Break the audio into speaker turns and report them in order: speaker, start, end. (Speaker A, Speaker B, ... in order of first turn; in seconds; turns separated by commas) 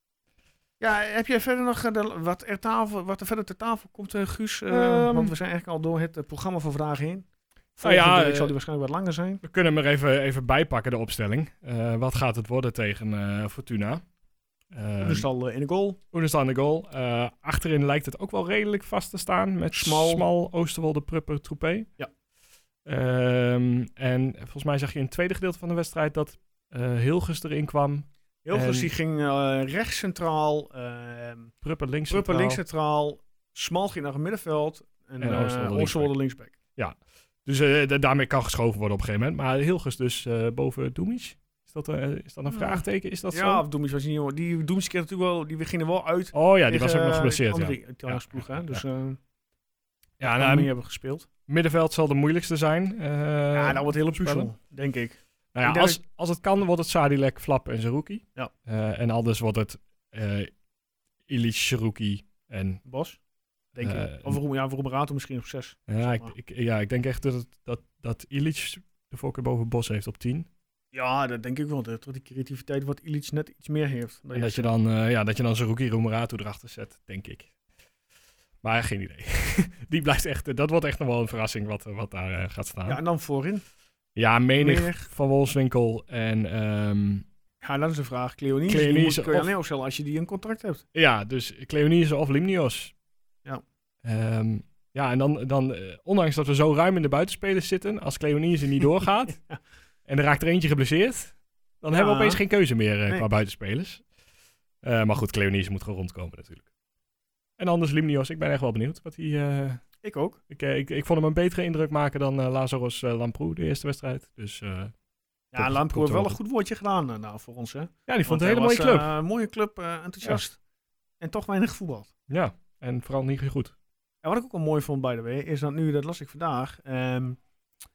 Speaker A: 0.8-9.4, Speaker B: 4.7-5.3, Speaker B: 7.8-8.5, Speaker B: 9.4-14.0, Speaker B: 14.7-15.3, Speaker A: 15.0-16.0, Speaker B: 16.1-21.9, Speaker A: 19.7-20.2, Speaker B: 22.8-28.9, Speaker A: 28.4-31.5, Speaker B: 31.6-32.6, Speaker A: 32.1-36.5, Speaker B: 35.2-36.1, Speaker B: 36.8-43.6, Speaker A: 42.5-49.2, Speaker B: 46.3-48.8, Speaker B: 50.2-50.7, Speaker A: 50.2-51.3, Speaker B: 51.5-54.5, Speaker A: 53.5-56.0, Speaker B: 55.5-60.5, Speaker B: 61.3-62.8, Speaker A: 62.8-63.2, Speaker A: 63.7-66.3, Speaker B: 63.8-64.4, Speaker B: 65.9-70.5, Speaker A: 70.9-74.7, Speaker B: 74.3-77.5, Speaker B: 78.6-83.0, Speaker A: 82.8-83.6, Speaker B: 84.2-87.2, Speaker A: 84.6-85.1, Speaker A: 87.6-90.8, Speaker B: 88.7-89.5, Speaker B: 90.9-92.9, Speaker B: 94.0-99.4, Speaker B: 100.0-104.0, Speaker A: 101.9-102.4, Speaker B: 104.8-106.6, Speaker B: 107.6-109.8, Speaker A: 110.0-110.4, Speaker B: 110.5-114.9, Speaker A: 115.5-120.6, Speaker B: 115.5-116.4, Speaker B: 118.1-119.1, Speaker A: 121.2-122.1, Speaker B: 122.3-123.7, Speaker A: 124.2-127.4